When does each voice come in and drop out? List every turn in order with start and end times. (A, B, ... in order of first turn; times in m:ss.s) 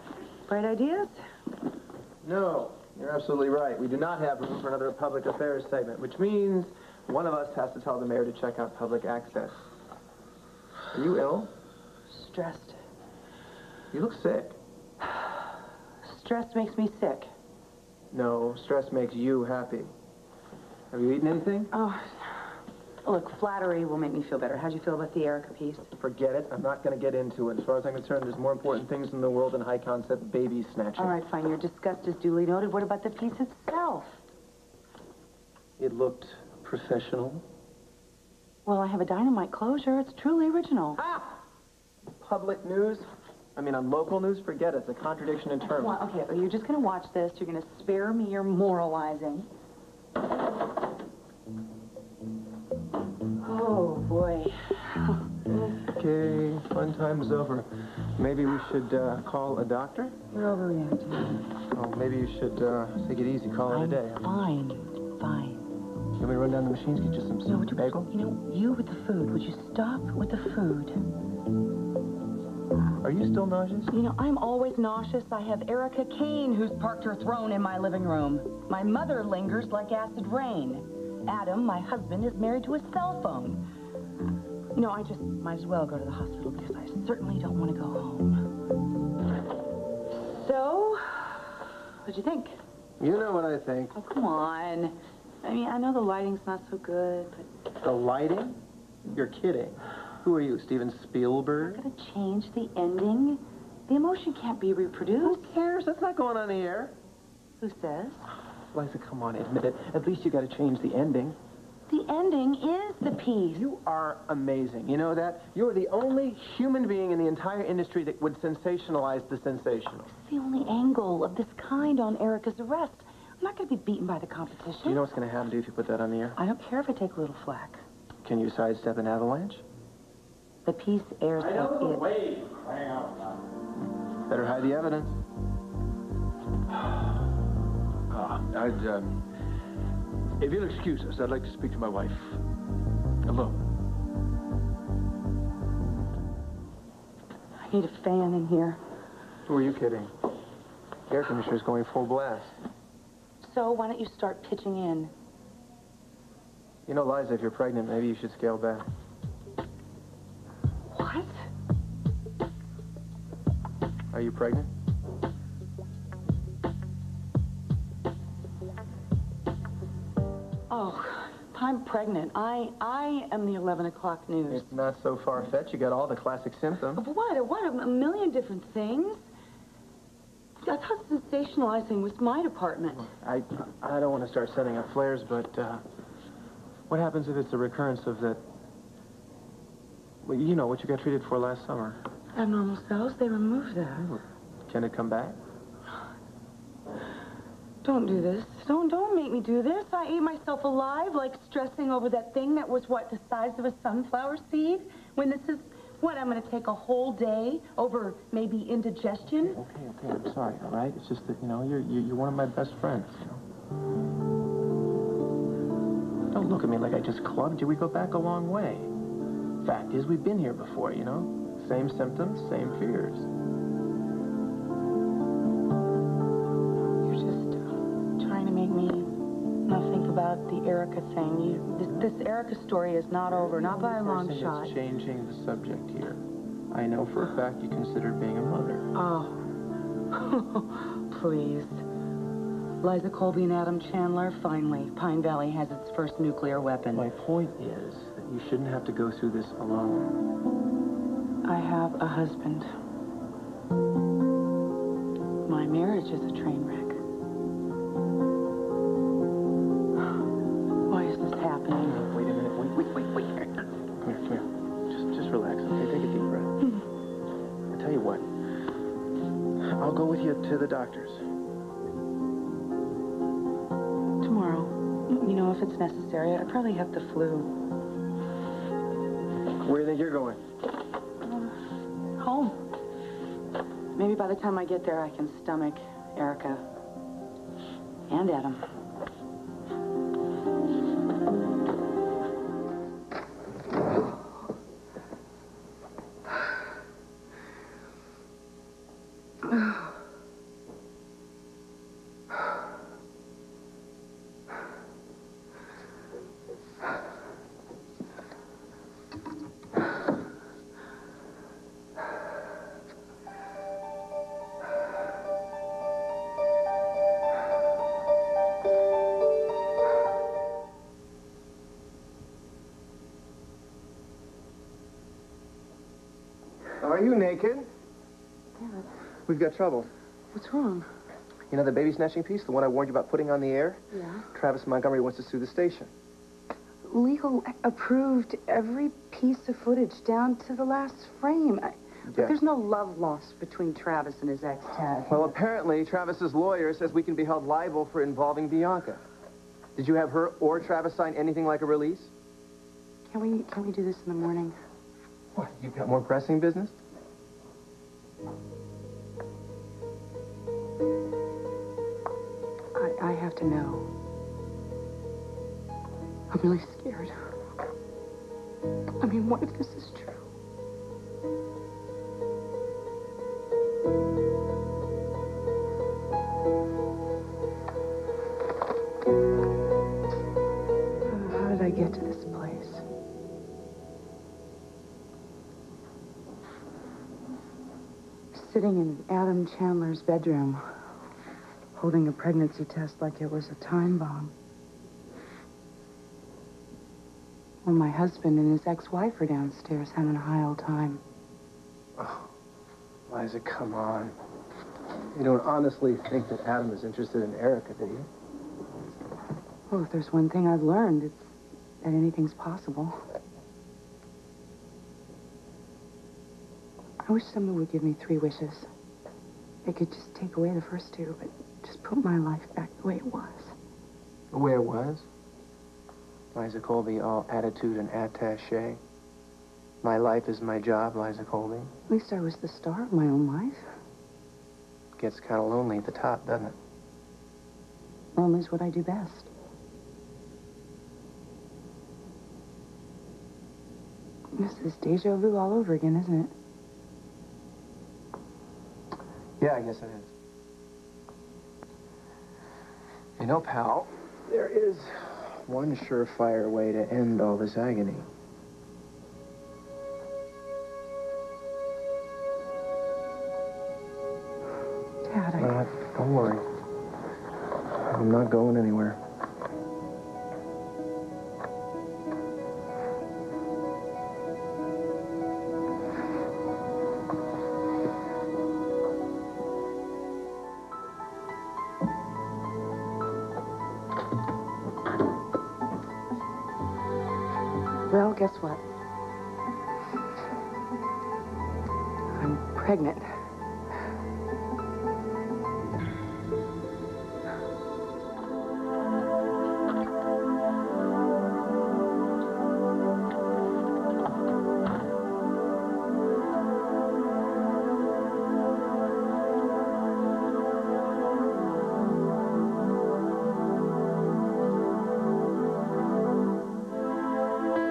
0:00.5-0:01.2 A
0:02.2-0:09.6 B
0:10.9-0:11.5 B
0:12.1-0:12.8 A
0:13.9-0:14.6 B
0:16.0-0:17.3 A
0:18.1-0:19.9 B
0:20.9-0:21.7 B
0:21.7-0:25.9 A
0:26.0-0:31.2 B
0:31.0-0:34.2 A
0:35.8-0:37.4 B
0:38.6-0:41.0 A
0:41.0-0:41.4 B
0:42.2-0:45.9 B
0:45.6-0:49.5 A
0:53.4-0:55.8 A
0:55.8-1:00.1 B
1:00.3-1:01.5 A
1:01.7-1:04.2 B
1:03.7-1:05.7 A
1:06.2-1:08.1 B
1:07.5-1:11.1 A
1:13.0-1:13.9 B
1:13.9-1:23.6 A
1:24.7-1:28.5 A
1:30.1-1:32.6 A
1:33.0-1:34.0 B
1:33.9-1:37.5 A
1:37.8-1:41.8 B
1:41.6-1:45.5 A
1:45.2-1:46.9 B
1:47.6-1:48.3 A
1:48.7-1:51.4 B
1:51.9-1:53.7 A
1:53.6-2:00.1 B
2:00.1-2:05.0 A
2:04.8-2:06.4 B
2:06.4-2:07.8 A
2:08.2-2:09.6 B
2:10.6-2:12.2 A
2:11.6-2:12.6 B
2:12.5-2:13.2 C
2:14.2-2:15.2 B
2:18.1-2:19.1 C
2:18.5-2:18.8 B
2:20.4-2:22.4 C
2:20.5-2:22.1 B
2:23.2-2:23.5 C
2:27.6-2:28.8 A
2:29.4-2:30.1 B
2:31.1-2:32.5 B
2:33.4-2:35.1 A
2:36.8-2:38.8 B
2:40.9-2:41.5 A
2:44.1-2:44.7 B
2:50.7-2:54.7 A
2:54.5-2:57.0 B
2:56.9-2:59.2 A
3:00.6-3:03.1 A
3:03.0-3:05.8 B
3:06.9-3:08.4 B
3:10.2-3:12.0 B
3:12.3-3:14.2 A
3:14.0-3:15.4 B
3:17.8-3:29.6 A
3:29.4-3:33.4 B
3:36.3-3:38.9 B
3:39.6-3:43.3 B
3:47.0-3:49.1 A
3:49.6-3:54.8 A
3:53.3-3:58.9 B
3:58.9-3:59.4 A
4:00.1-4:01.8 A
4:02.8-4:07.1 A
4:06.9-4:10.2 B
4:11.4-4:12.7 A
4:15.4-4:17.0 A
4:20.9-4:22.0 A
4:21.8-4:26.6 B
4:27.7-4:28.3 B
4:29.6-4:31.3 B
4:34.2-4:37.5 A
4:39.6-4:40.4 B
4:42.2-4:42.6 A
4:43.9-4:46.6 A
4:48.1-4:48.6 A
5:26.8-5:27.7 B
5:28.6-5:28.9 A
5:29.3-5:29.9 B
5:30.3-5:30.9 A
5:31.5-5:33.8 B
5:33.9-5:34.3 A
5:34.3-5:35.9 B
5:36.8-5:45.3 A
5:42.0-5:42.4 B
5:45.1-5:49.0 B
5:49.7-5:52.1 B
5:53.1-5:54.5 A
5:55.3-5:56.7 B
6:02.7-6:03.9 A
6:06.3-6:07.1 A
6:09.0-6:10.3 A
6:21.1-6:22.8 A
6:28.3-6:30.6 A
6:31.7-6:34.3 A
6:37.6-6:41.0 A
6:42.0-6:42.3 B
6:43.1-6:44.1 B
6:45.0-6:48.1 B
6:49.7-6:53.0 A
6:57.0-6:58.7 A
6:59.6-7:03.6 A
7:04.3-7:05.1 B
7:06.3-7:08.8 B
7:09.8-7:11.7 B
7:11.9-7:13.6 A
7:15.0-7:16.6 B
7:18.2-7:19.3 A
7:24.4-7:26.3 A
7:29.4-7:30.1 B
7:33.2-7:38.1 B
7:45.0-7:45.6 A
7:45.4-7:46.4 B
7:47.7-7:49.0 B
8:07.9-8:08.6 A
8:12.1-8:13.2 A